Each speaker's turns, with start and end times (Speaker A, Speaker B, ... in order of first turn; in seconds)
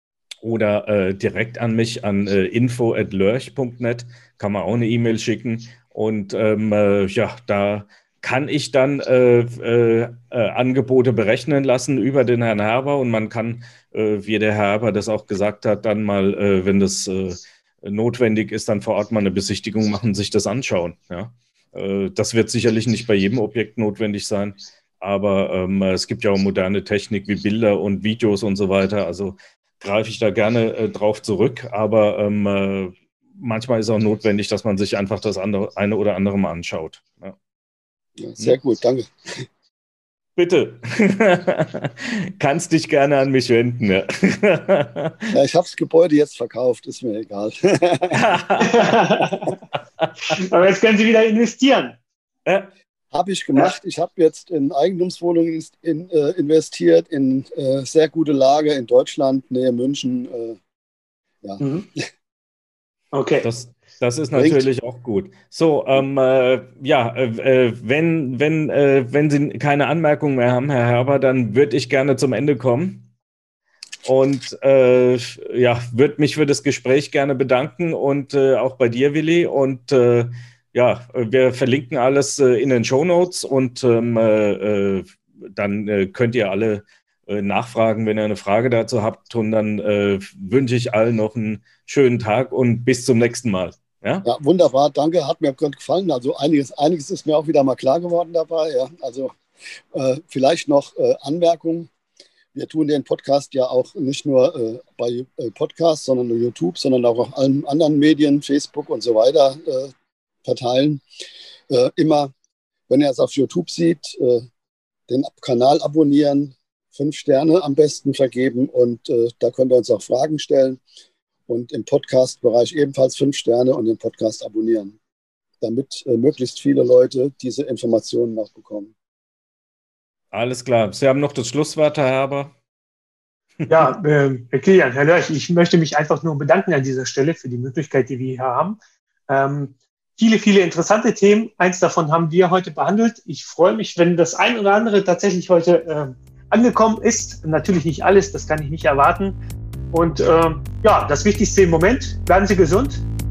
Speaker A: 0.4-37.4, 40.4-45.3, 48.1-49.0, 63.4-73.1, 74.0-94.3, 130.3-132.5, 133.6-133.8
Speaker B: 38.2-39.5, 45.3-48.2, 53.1-60.6, 64.3-64.6, 94.2-99.4, 99.9-101.9, 102.5-109.9, 110.4-111.0, 111.7-112.3, 112.9-114.5, 115.1-120.8, 121.5-125.0, 125.6-128.9
Speaker C: 48.6-49.6, 50.3-52.0, 61.6-61.9, 63.1-63.5, 133.7-149.4, 149.9-153.0